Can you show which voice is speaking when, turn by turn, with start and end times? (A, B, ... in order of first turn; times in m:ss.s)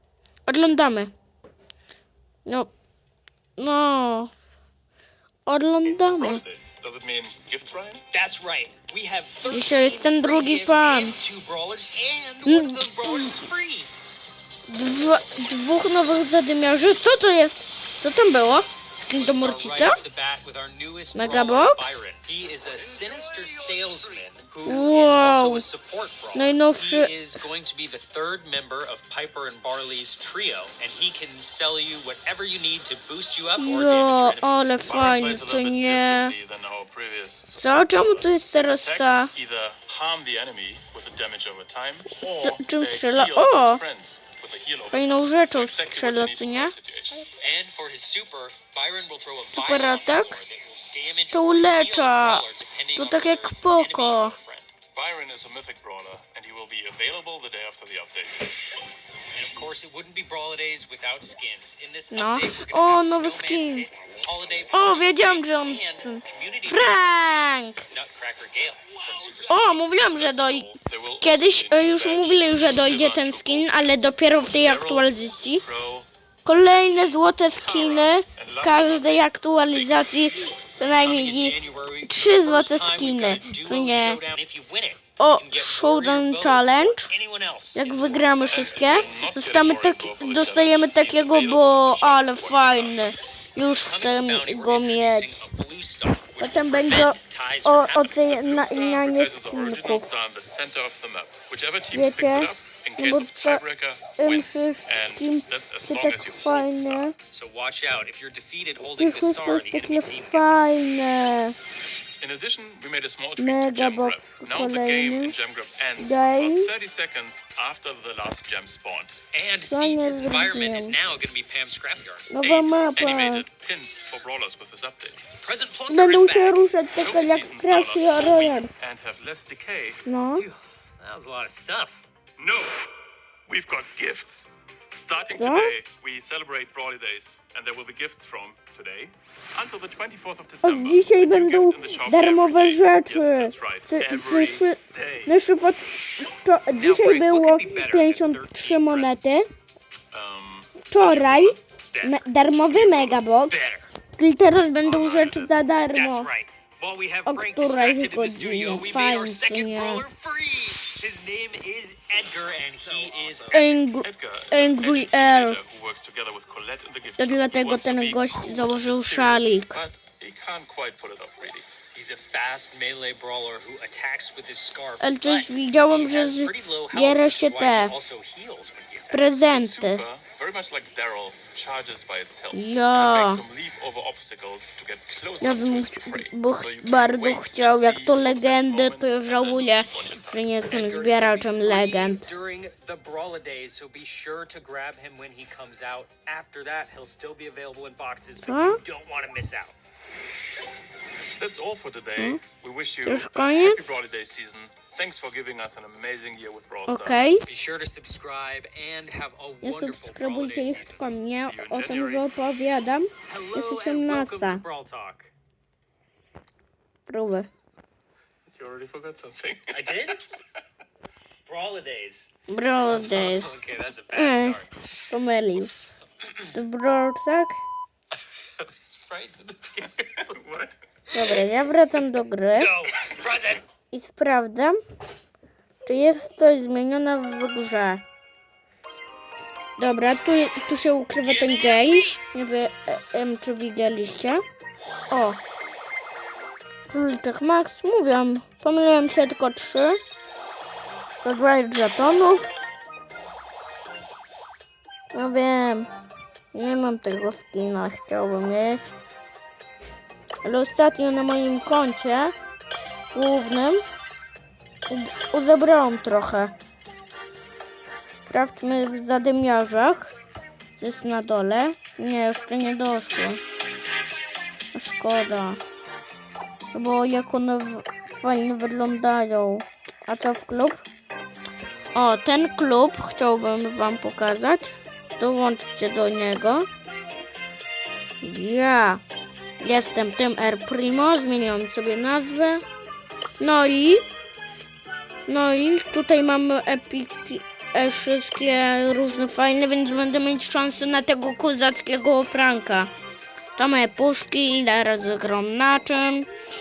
0:00.4-0:01.1 A
0:02.4-0:02.7 A
0:03.6-0:04.3 A
0:05.4-0:06.4 A
0:05.8-0:08.0 B
0:08.1-0:13.9 C
0:09.4-0:11.2 A
0:12.4-0:13.4 A
0:14.7-0:20.0 A
0:19.1-0:34.8 C
0:21.1-0:21.9 A
0:24.6-0:25.6 A
0:26.3-0:27.1 A
0:33.6-0:36.3 A
0:34.8-0:47.3 B
0:37.6-0:39.3 A
0:42.4-0:43.8 A
0:44.9-0:46.7 A
0:47.4-0:54.7 C
0:49.5-0:50.4 A
0:51.3-0:54.3 A
0:54.9-0:58.5 B
0:59.3-1:07.0 C
1:02.1-1:03.9 A
1:04.7-1:07.8 A
1:07.8-1:10.6 C
1:09.3-1:16.1 B
1:09.5-1:15.8 A
1:16.4-1:24.2 A
1:17.6-1:20.2 B
1:20.3-1:28.0 C
1:25.2-1:27.1 A
1:27.7-1:35.5 A
1:27.9-1:33.2 B
1:33.6-1:38.2 C
1:36.4-1:40.1 A
1:38.1-1:47.1 B
1:41.9-1:43.6 A
1:44.2-1:47.1 A
1:47.3-1:50.6 C
1:49.0-1:51.5 A
1:52.2-1:59.2 B
1:53.4-1:55.4 A
1:56.0-1:56.7 A
1:59.3-2:02.3 C
1:59.7-2:01.0 A
2:02.3-2:03.4 A
2:02.4-2:05.2 B
2:05.4-2:06.6 C
2:05.9-2:08.7 A
2:07.0-2:10.0 B
2:10.0-2:10.5 A
2:10.4-2:12.0 C
2:12.4-2:12.9 B
2:13.5-2:25.3 B
2:15.3-2:15.7 A
2:20.6-2:29.5 A
2:26.8-2:29.5 C
2:30.1-2:31.6 B
2:30.9-2:33.6 A
2:31.9-2:33.9 C
2:33.0-2:33.3 B
2:34.2-2:36.3 A
2:34.8-2:35.6 B
2:35.9-2:43.7 C
2:37.2-2:40.0 A
2:42.6-2:51.7 B
2:43.5-2:45.6 A
2:47.2-2:49.8 A
2:51.9-2:59.3 C
2:55.0-2:57.9 A
2:59.1-3:00.0 A
2:59.4-3:10.4 B
3:02.5-3:03.4 A
3:05.4-3:12.2 A
3:10.6-3:19.7 C
3:18.4-3:18.8 A
3:21.4-3:27.3 B
3:23.0-3:23.9 A
3:26.9-3:27.4 A
3:27.4-3:31.1 C
3:29.6-3:34.6 A
3:31.4-3:32.2 B
3:33.3-3:35.3 C
3:37.1-3:37.5 A
3:38.5-3:40.2 B
3:39.7-3:40.2 C
3:41.4-3:42.3 C
3:42.5-3:43.5 A
3:42.8-3:46.6 C
3:44.1-3:45.7 A
3:46.5-3:47.6 A
3:48.4-3:50.5 C
3:50.2-3:50.8 B
3:51.1-3:53.6 C
3:51.1-3:52.7 A
3:53.9-3:54.8 A
3:55.8-3:58.0 A
3:59.8-4:04.4 A
4:01.2-4:02.2 C
4:05.1-4:05.4 A
4:06.9-4:10.0 A
4:11.2-4:12.4 A
4:15.1-4:15.9 A
4:16.5-4:18.9 A
4:20.4-4:22.3 A
4:23.1-4:23.8 A
4:24.9-4:26.5 A
4:28.2-4:30.1 A
4:30.8-4:33.4 A
4:34.7-4:35.6 A
4:36.7-4:40.8 A
4:41.9-4:46.7 A
4:48.2-4:49.0 A
4:49.6-4:52.6 A
4:53.4-4:54.0 A
4:55.3-5:02.9 A
5:03.6-5:06.3 A